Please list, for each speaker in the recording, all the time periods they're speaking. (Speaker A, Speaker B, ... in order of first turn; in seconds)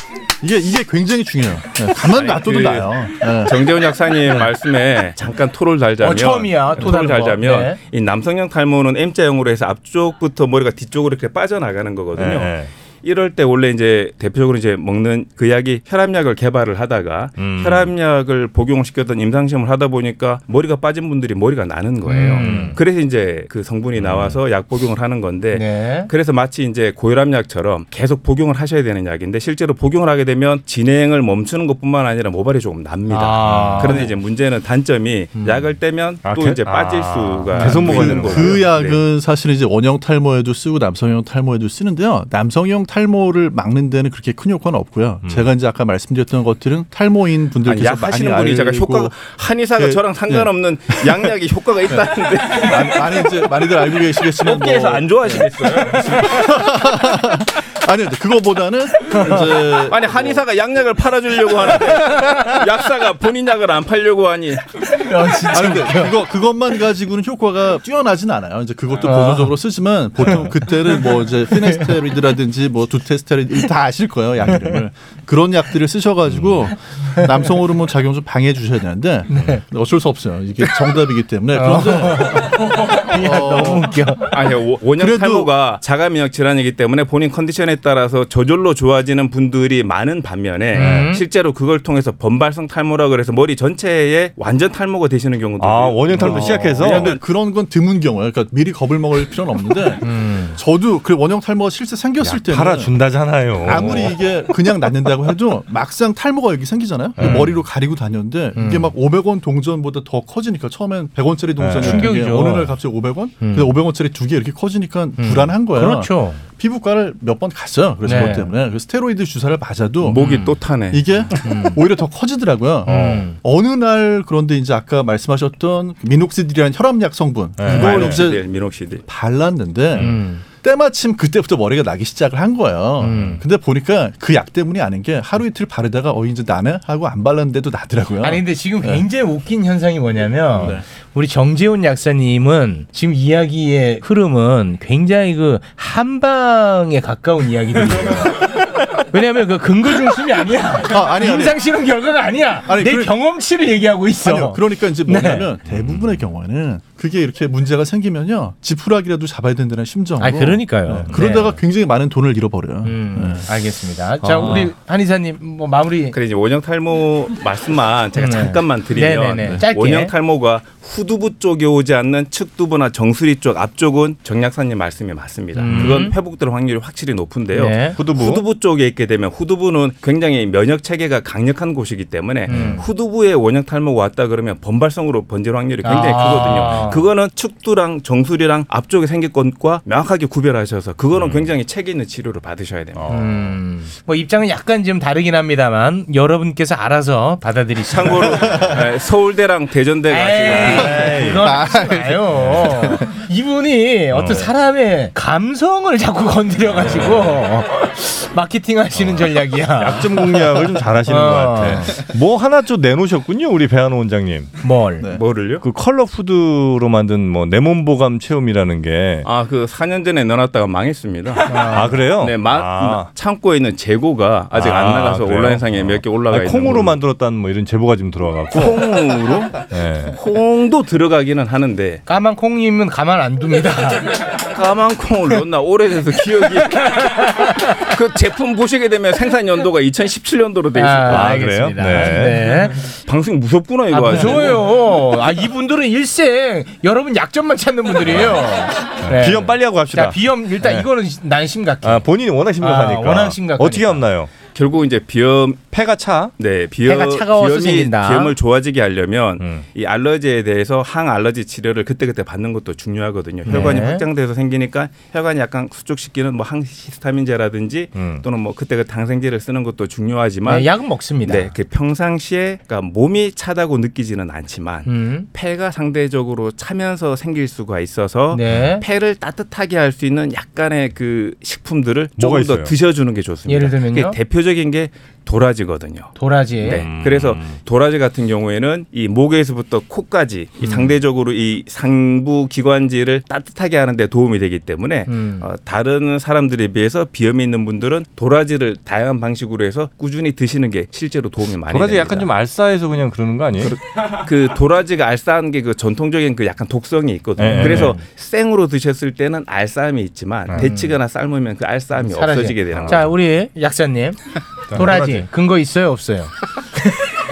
Speaker A: 0.4-3.6, 37.6-49.2, 49.8-51.2, 51.9-60.4, 65.5-84.1, 85.0-85.5, 96.2-102.9, 103.6-120.2, 120.9-128.5, 129.1-139.1, 140.6-140.8, 150.9-151.6, 152.7-153.2, 154.2-163.5, 201.6-202.1
Speaker B: 2.1-39.0, 47.6-53.2, 54.4-56.5, 59.8-64.6, 84.3-97.2, 120.1-121.0, 127.7-129.0, 166.1-193.1, 197.9-201.3, 215.1-215.6, 219.2-227.0, 228.5-232.0, 234.3-241.4, 243.1-244.7, 254.6-255.7, 256.4-270.7, 271.2-302.3, 303.6-313.1
Speaker C: 6.0-7.8, 22.1-22.8, 25.5-26.1, 33.1-34.1, 35.4-35.7, 64.9-66.2, 69.0-69.6, 70.3-71.9, 79.3-79.6, 81.5-84.3, 90.7-91.2, 96.2-96.8, 100.0-100.6, 107.2-107.5, 108.5-108.9, 111.8-112.8, 113.4-113.8, 115.2-116.4, 118.0-118.5, 120.1-120.6, 121.4-121.8, 122.9-123.4, 130.0-130.4, 133.0-133.4, 138.2-155.5, 160.2-161.6, 162.8-166.2, 168.2-170.1, 175.6-176.1, 177.5-178.0, 182.5-182.9, 185.8-187.0, 193.1-198.7, 200.1-211.9, 214.6-215.1, 221.5-222.0, 232.1-234.2, 236.8-237.7, 240.8-242.8, 243.9-252.1, 252.6-254.0, 256.9-258.3, 263.5-264.1, 270.5-271.5, 274.9-275.3, 278.3-278.8, 283.5-284.2, 286.2-286.9, 295.1-295.5, 307.5-308.0, 310.5-310.9, 312.1-314.2, 314.7-317.1
Speaker D: 12.2-12.7, 17.4-17.9, 22.4-22.8, 24.0-24.4, 33.5-34.0, 36.2-38.7, 76.3-76.6, 90.8-91.1, 95.6-97.2, 102.2-104.2, 107.2-107.5, 111.6-112.1, 122.9-123.2, 127.6-128.2, 164.3-164.6, 175.7-176.0, 178.0-178.4, 182.5-182.8, 191.2-191.5, 193.0-193.6, 200.5-201.5, 202.2-203.0, 204.1-204.5, 206.7-207.4, 209.0-214.5, 215.6-219.3, 221.7-223.1, 224.5-229.0, 229.7-230.2, 241.1-242.6, 248.1-248.4, 249.0-250.9, 251.8-254.3, 255.7-256.3, 267.9-268.2, 282.2-282.7, 286.8-287.6, 301.7-303.8, 307.4-307.9, 312.7-313.1, 314.7-315.3